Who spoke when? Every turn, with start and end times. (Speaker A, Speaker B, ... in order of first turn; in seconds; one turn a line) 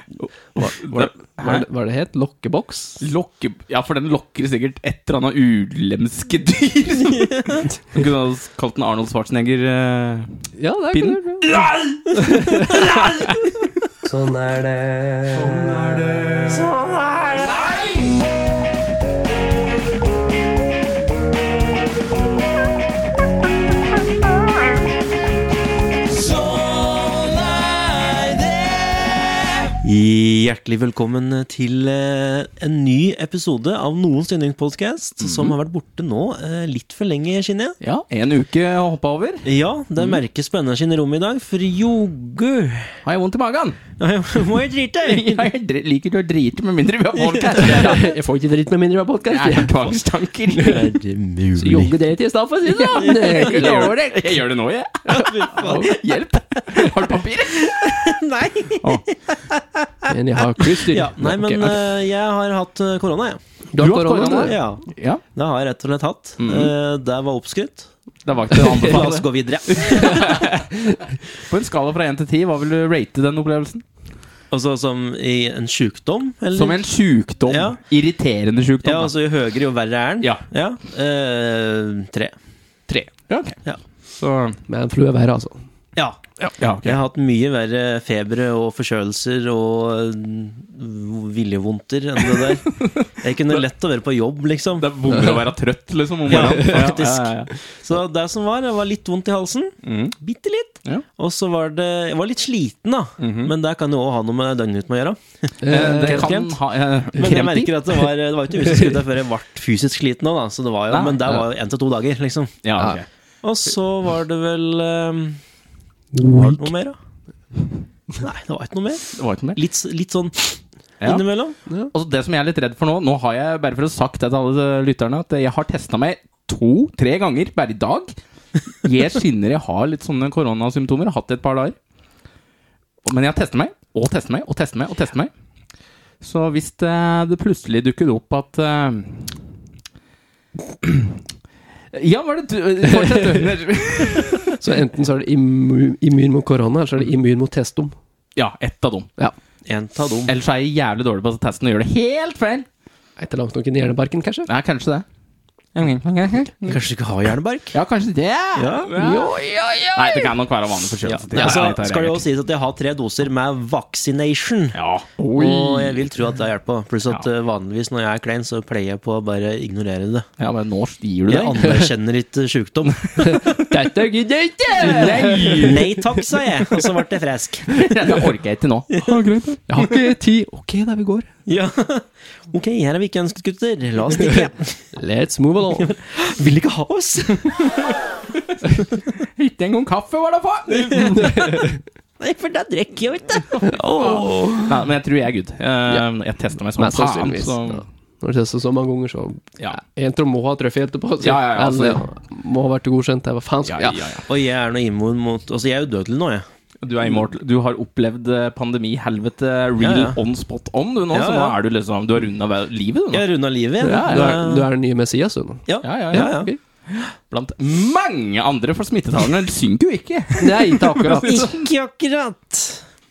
Speaker A: 0.5-3.0
Speaker B: 0.6-1.7
Speaker B: 3.0-10.3
Speaker C: 7.2-7.5
Speaker A: 10.6-12.9
Speaker B: 10.9-12.1
Speaker C: 12.6-13.0
Speaker B: 12.7-13.4
Speaker A: 14.0-16.6
Speaker C: 16.8-17.5
Speaker C: 29.8-37.8
Speaker B: 35.2-35.5
Speaker B: 37.8-39.5
Speaker C: 39.5-43.0
Speaker B: 43.0-43.8
Speaker C: 44.0-45.5
Speaker B: 45.0-48.2
Speaker A: 47.5-49.8
Speaker B: 49.3-50.8
Speaker A: 50.5-50.8
Speaker C: 50.7-51.9
Speaker A: 51.5-54.4
Speaker B: 52.7-58.2
Speaker C: 53.0-53.6
Speaker C: 55.0-56.0
Speaker C: 56.7-60.1
Speaker A: 60.1-61.8
Speaker C: 60.7-63.4
Speaker A: 63.7-64.6
Speaker B: 63.8-65.2
Speaker C: 64.4-67.9
Speaker B: 66.4-66.7
Speaker B: 68.3-70.7
Speaker C: 68.5-70.5
Speaker A: 70.0-71.0
Speaker B: 71.3-73.8
Speaker C: 74.5-76.8
Speaker B: 76.5-79.1
Speaker C: 77.5-77.8
Speaker C: 78.8-82.3
Speaker B: 82.9-83.6
Speaker B: 84.2-84.6
Speaker A: 84.7-85.6
Speaker C: 86.0-86.2
Speaker B: 86.5-87.0
Speaker C: 86.8-94.9
Speaker B: 92.8-93.1
Speaker B: 94.8-97.5
Speaker A: 95.1-95.5
Speaker C: 96.3-106.5
Speaker A: 96.4-96.8
Speaker B: 99.8-100.1
Speaker B: 103.2-103.5
Speaker A: 105.6-106.5
Speaker B: 105.7-107.7
Speaker C: 107.2-112.5
Speaker A: 108.7-108.9
Speaker B: 110.9-111.4
Speaker B: 112.6-113.1
Speaker C: 113.4-115.4
Speaker A: 116.1-116.7
Speaker C: 116.2-117.0
Speaker C: 118.2-121.6
Speaker B: 119.2-119.6
Speaker B: 121.9-128.1
Speaker B: 128.7-131.8
Speaker B: 133.1-135.3
Speaker B: 136.2-139.3
Speaker B: 140.8-141.2
Speaker B: 141.9-144.6
Speaker A: 142.9-143.4
Speaker A: 144.6-147.9
Speaker B: 148.4-149.1
Speaker C: 149.7-150.3
Speaker B: 150.3-152.7
Speaker A: 153.2-154.5
Speaker B: 154.5-155.1
Speaker B: 155.8-156.8
Speaker C: 156.7-157.8
Speaker B: 157.7-159.4
Speaker C: 158.6-158.9
Speaker A: 159.0-160.3
Speaker B: 159.9-162.2
Speaker C: 161.1-164.8
Speaker A: 161.3-161.7
Speaker B: 164.8-165.2
Speaker A: 165.2-166.0
Speaker C: 165.3-170.2
Speaker B: 170.4-171.7
Speaker C: 171.3-173.7
Speaker A: 171.6-171.9
Speaker A: 173.2-176.9
Speaker B: 174.8-175.9
Speaker C: 174.8-177.9
Speaker B: 177.7-179.6
Speaker C: 178.9-179.9
Speaker A: 179.7-181.3
Speaker C: 181.5-184.8
Speaker A: 184.2-185.9
Speaker C: 185.8-188.3
Speaker B: 189.4-191.6
Speaker C: 190.7-193.8
Speaker A: 191.1-191.7
Speaker A: 193.6-194.8
Speaker B: 194.0-197.8
Speaker A: 196.8-204.2
Speaker B: 201.2-202.0
Speaker B: 203.7-204.2
Speaker C: 204.3-206.4
Speaker B: 206.8-213.2
Speaker C: 209.8-210.2
Speaker C: 211.1-211.6
Speaker C: 213.1-214.7
Speaker B: 213.8-214.4
Speaker A: 213.8-216.6
Speaker C: 215.7-216.5
Speaker B: 215.8-216.4
Speaker B: 217.3-221.7
Speaker A: 220.4-221.4
Speaker C: 221.2-222.8